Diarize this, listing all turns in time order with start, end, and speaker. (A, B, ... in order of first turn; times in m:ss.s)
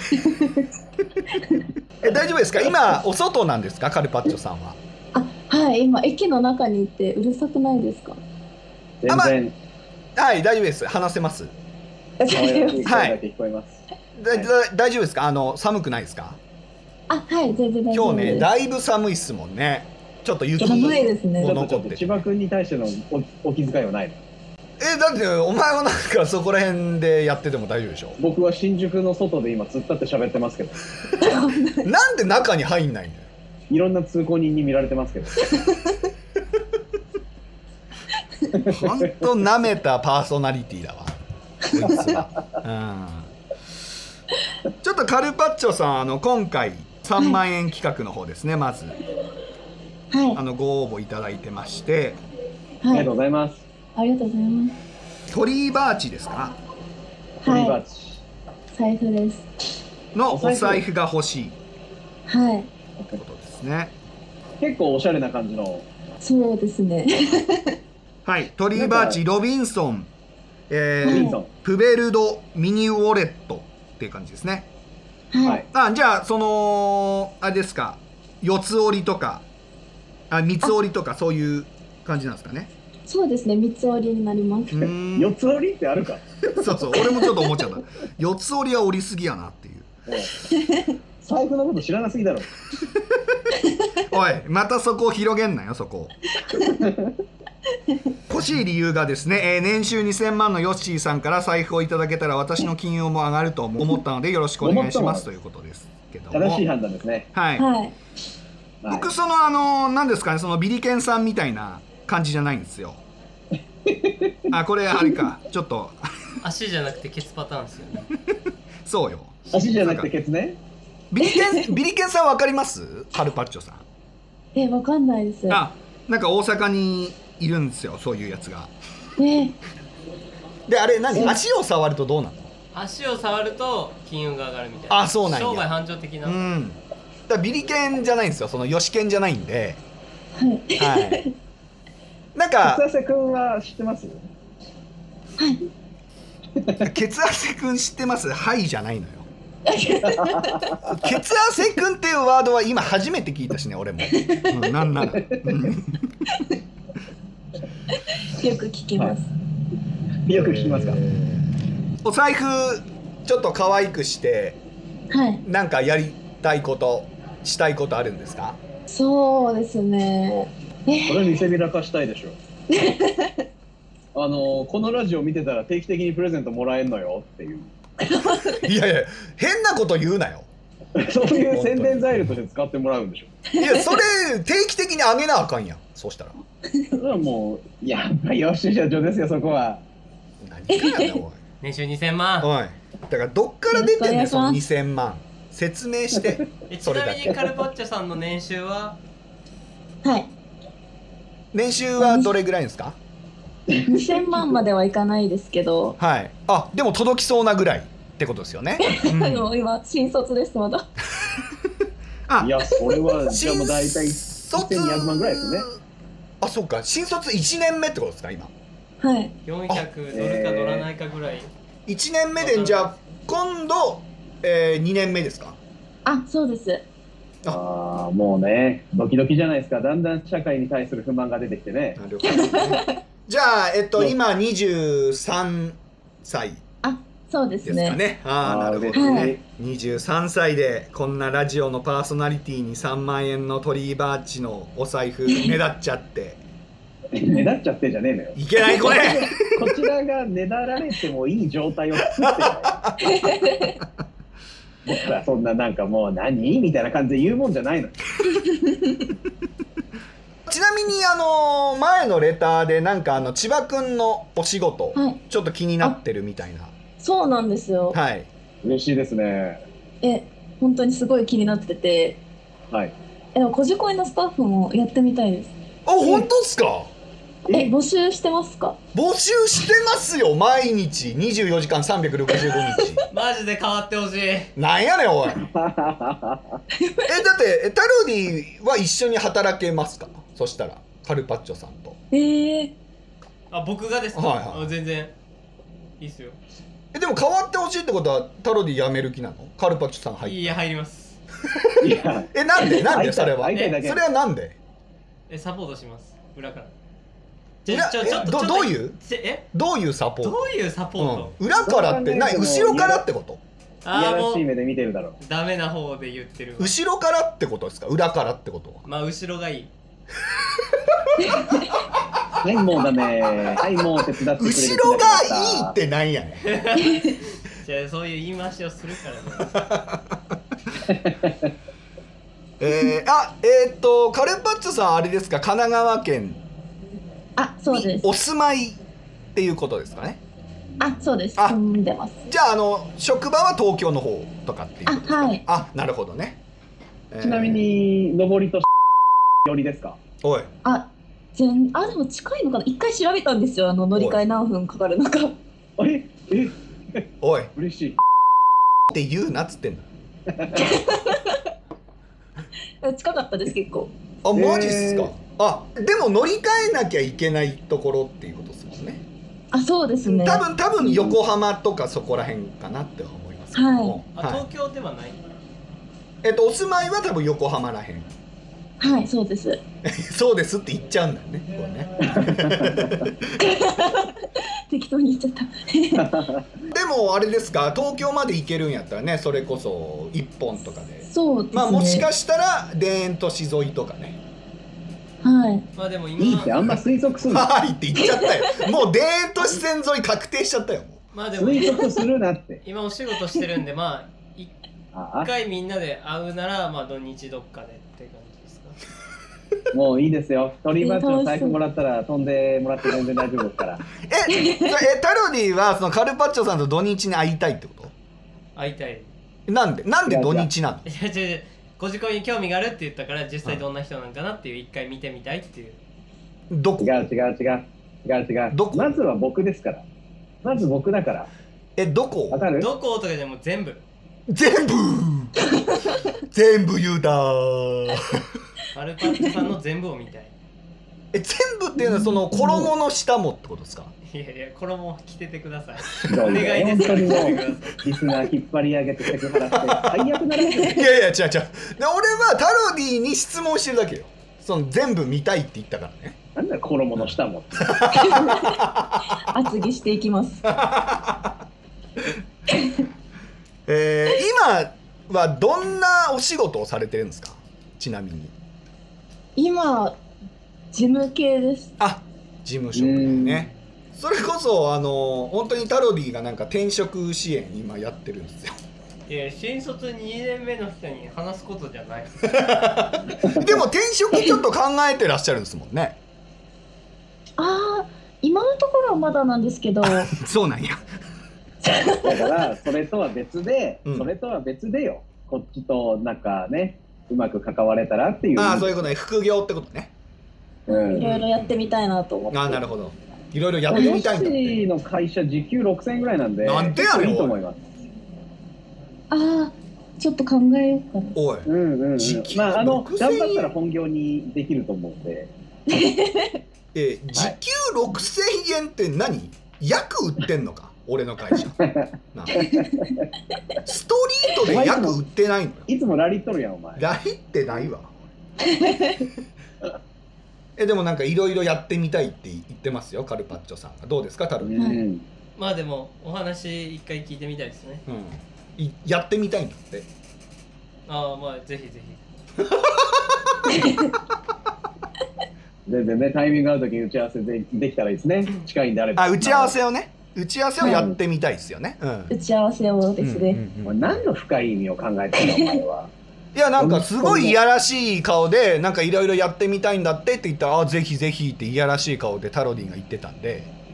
0:02.0-0:04.8 A
0:02.0-0:02.9 B
0:05.2-0:08.2 C
0:09.0-0:09.5 B
0:09.1-0:09.4 A
0:10.2-0:11.5 A
0:12.2-0:13.0 C
0:12.3-0:13.8 B
0:12.8-0:13.2 A
0:14.2-0:16.4 A
0:17.1-0:18.5 C
0:17.9-0:22.2 A
0:20.6-0:21.5 C
0:20.7-0:24.2 B
0:24.8-0:28.2 A
0:28.2-0:30.8 B
0:31.2-0:31.9 C
0:31.7-0:33.3 A
0:33.7-0:35.7 B
0:38.5-0:39.0 B
0:38.7-0:41.1 A
0:41.7-0:43.3 A
0:41.9-0:42.3 B
0:44.8-0:48.9 A
0:50.1-0:50.4 C
0:50.4-0:52.2 A
0:52.8-0:53.1 C
0:52.9-0:53.6 B
0:54.0-0:54.8 C
0:55.3-0:56.6 A
0:57.4-0:57.8 C
0:57.4-0:58.2 B
0:58.7-0:59.4 C
1:00.1-1:01.6 A
1:00.3-1:00.8 B
1:02.3-1:02.7 C
1:03.1-1:03.9 A
1:04.6-1:05.8 B
1:06.2-1:07.8 C
1:08.2-1:10.1 A
1:08.7-1:09.2 B
1:10.7-1:14.7 A
1:11.0-1:11.4 C
1:11.0-1:11.5 B
1:15.3-1:15.6 C
1:15.7-1:19.4 A
1:20.3-1:22.7 A
1:23.1-1:24.9 C
1:24.7-1:25.4 A
1:25.2-1:26.3 B
1:26.6-1:29.9 A
1:30.1-1:30.4 B
1:30.6-1:30.9 C
1:31.2-1:32.5 B
1:34.1-1:36.1 A
1:36.6-1:37.2 B
1:38.3-1:46.6 A
1:44.6-1:45.2 B
1:46.3-1:47.3 B
1:47.3-1:47.7 A
1:47.6-1:48.0 C
1:48.8-1:49.1 B
1:48.9-1:53.0 A
1:53.9-1:54.5 B
1:54.5-1:56.0 A
1:56.4-1:58.0 D
1:58.3-2:00.1 A
1:59.5-2:00.6 B
2:01.1-2:03.8 A
2:01.2-2:01.7 C
2:04.6-2:05.6 C
2:05.5-2:08.7 A
2:09.2-2:09.5 C
2:10.7-2:12.5 A
2:12.7-2:16.4 D
2:14.9-2:15.7 A
2:16.2-2:19.8 A
2:20.4-2:21.3 C
2:20.8-2:21.2 A
2:22.4-2:22.8 A
2:22.6-2:24.2 B
2:25.4-2:25.7 C
2:26.8-2:29.3 A
2:29.7-2:30.7 C
2:30.1-2:30.7 B
2:30.8-2:36.2 A
2:34.1-2:34.5 C
2:38.0-2:39.3 C
2:40.3-2:41.0 B
2:40.3-2:41.5 A
2:42.0-2:44.6 A
2:45.1-2:45.4 C
2:45.4-2:48.6 A
2:48.9-2:51.4 C
2:51.1-2:52.4 B
2:52.7-2:53.4 C
2:54.2-2:57.7 B
2:58.1-2:58.6 C
2:58.5-3:00.5 A
3:01.0-3:03.3 B
3:01.5-3:02.3 A
3:03.5-3:04.0 C
3:03.6-3:06.4 A
3:06.9-3:09.8 B
3:10.4-3:11.4 A
3:10.7-3:11.2 C
3:11.6-3:12.5 D
3:12.4-3:17.4 A
3:13.7-3:14.6 C
3:16.7-3:19.0 D
3:20.0-3:20.3 C
3:21.5-3:23.0 A
3:22.0-3:22.3 C
3:23.7-3:24.5 B
3:23.9-3:26.0 C
3:26.0-3:29.5 A
3:28.8-3:30.8 C
3:32.3-3:32.6 A
3:32.4-3:35.7 B
3:33.2-3:35.8 A
3:36.4-3:38.5 A
3:39.0-3:39.3 C
3:39.5-3:41.5 D
3:40.1-3:40.9 B
3:41.9-3:45.6 A
3:42.4-3:43.0 D
3:46.0-3:46.8 C
3:47.5-3:52.0 B
3:52.0-3:56.6 A
3:52.3-3:53.0 C
3:56.8-3:58.0 C
3:57.6-4:06.4 A
3:58.4-3:59.4 B
3:58.9-3:59.3 C
4:07.1-4:12.8 B
4:08.4-4:09.8 A
4:12.2-4:13.9 A
4:13.0-4:13.8 C
4:14.9-4:18.0 B
4:18.2-4:19.1 C
4:20.5-4:26.7 A
4:27.0-4:28.0 C
4:27.9-4:28.3 A
4:28.6-4:29.6 B
4:30.0-4:32.2 C
4:33.4-4:35.5 C
4:35.9-4:36.9 A
4:37.5-4:38.8 C
4:38.9-4:43.0 A
4:43.1-4:44.5 D
4:44.6-4:45.5 A
4:45.4-4:46.6 B
4:46.8-4:47.1 C
4:47.1-4:52.0 A
4:52.1-4:52.7 C
4:53.5-4:55.1 D
4:54.1-4:54.7 A
4:56.0-4:56.4 D
4:56.9-5:00.6 A
5:00.2-5:01.2 D
5:01.5-5:04.6 A
5:01.8-5:04.0 B
5:05.3-5:06.7 D
5:07.6-5:09.5 D
5:07.7-5:09.0 A
5:09.5-5:13.4 A
5:10.2-5:11.4 D
5:11.6-5:13.0 B
5:13.8-5:14.5 D
5:13.9-5:15.2 B
5:15.2-5:16.7 D
5:16.6-5:18.8 A
5:18.8-5:19.7 D
5:20.6-5:21.4 A
5:21.2-5:21.6 C
5:22.4-5:25.7 B
5:24.4-5:26.5 A
5:26.4-5:29.6 D
5:29.5-5:30.4 A
5:31.0-5:31.5 B
5:32.6-5:36.4 A
5:37.4-5:38.1 C
5:37.7-5:38.8 A
5:39.4-5:40.2 A
5:40.8-5:42.2 C
5:42.3-5:46.4 A
5:44.9-5:45.4 C
5:47.1-5:47.6 A
5:47.2-5:48.7 B
5:49.4-5:50.0 B
5:50.2-5:50.5 A
5:50.6-5:55.4 C
5:54.0-5:54.2 A
5:55.8-5:57.0 B
5:57.2-5:57.5 A
5:57.6-5:58.0 B
5:58.9-5:59.9 A
6:00.3-6:00.6 B
6:00.6-6:01.4 C
6:02.8-6:03.9 C
6:04.2-6:09.0 A
6:04.4-6:05.1 B
6:09.5-6:10.4 C
6:10.0-6:14.4 A
6:13.5-6:14.0 C
6:14.2-6:15.3 D
6:16.2-6:18.1 A
6:18.8-6:19.6 C
6:19.8-6:23.4 A
6:22.1-6:23.1 B
6:23.4-6:26.2 C
6:26.0-6:26.4 B
6:26.7-6:34.2 A
6:31.1-6:32.1 C
6:35.2-6:35.7 C
6:35.8-6:36.7 D
6:36.2-6:37.5 B
6:37.3-6:41.0 A
6:38.0-6:38.6 C
6:41.1-6:42.0 D
6:41.4-6:42.6 B
6:42.6-6:44.5 D
6:44.9-6:45.3 B
6:45.2-6:48.8 D
6:49.7-6:53.8 B
6:50.8-6:51.6 C
6:54.0-6:57.9 A
6:54.3-6:54.7 C
6:58.6-6:59.1 D
6:59.5-7:00.8 A
7:00.1-7:00.5 B
7:00.9-7:05.8 D
7:06.5-7:07.1 A
7:06.8-7:09.8 B
7:08.5-7:09.0 A
7:10.4-7:11.3 B
7:11.8-7:12.5 A
7:12.3-7:12.7 B
7:12.6-7:13.8 D
7:14.3-7:15.4 A
7:16.3-7:18.3 A
7:18.7-7:20.4 D
7:21.1-7:23.9 A
7:22.4-7:22.7 B
7:24.1-7:28.0 D
7:26.1-7:30.8 B
7:29.5-7:30.0 A
7:30.6-7:36.2 A
7:36.4-7:38.2 B
7:37.6-7:39.2 A
7:37.9-7:38.6 C
7:39.1-7:40.5 C
7:40.4-7:41.4 A
7:43.7-7:48.3 A
7:49.4-7:50.0 C
7:50.7-7:51.7 C
7:51.8-7:58.5 A
7:52.8-7:53.5 B
7:59.1-8:02.4 D
8:02.2-8:06.0 A
8:03.2-8:03.6 B
8:07.4-8:10.1 C
8:09.8-8:10.8 A
8:11.6-8:12.2 C
8:11.9-8:18.9 B
8:13.9-8:14.1 A
8:18.4-8:19.9 A
8:20.7-8:22.6 C
8:20.7-8:21.1 B
8:21.0-8:21.8 A
8:22.3-8:24.6 A
8:23.7-8:27.6 B
8:23.7-8:24.3 C
8:26.4-8:27.4 A
8:29.1-8:31.2 C
8:31.2-8:33.5 A
8:31.5-8:35.3 B
8:35.7-8:36.4 C
8:36.7-8:41.6 A
8:41.6-8:43.0 B
8:42.1-8:42.6 A
8:43.6-8:45.7 A
8:44.4-8:45.0 B
8:45.7-8:46.8 B
8:46.8-8:48.0 A
8:48.5-8:49.1 C
8:50.6-8:54.8 A
8:54.4-8:55.0 B
8:54.6-8:54.8 C
8:55.4-8:57.8 D
8:57.9-8:59.9 A
9:00.9-9:02.0 D
9:02.4-9:03.2 A
9:03.5-9:03.9 C
9:05.7-9:09.6 B
9:09.0-9:12.1 A
9:10.6-9:10.9 C
9:10.6-9:11.0 B
9:12.1-9:13.4 C
9:13.0-9:14.0 A
9:13.7-9:15.9 B
9:15.2-9:15.5 C
9:16.3-9:23.5 A
9:16.6-9:17.4 B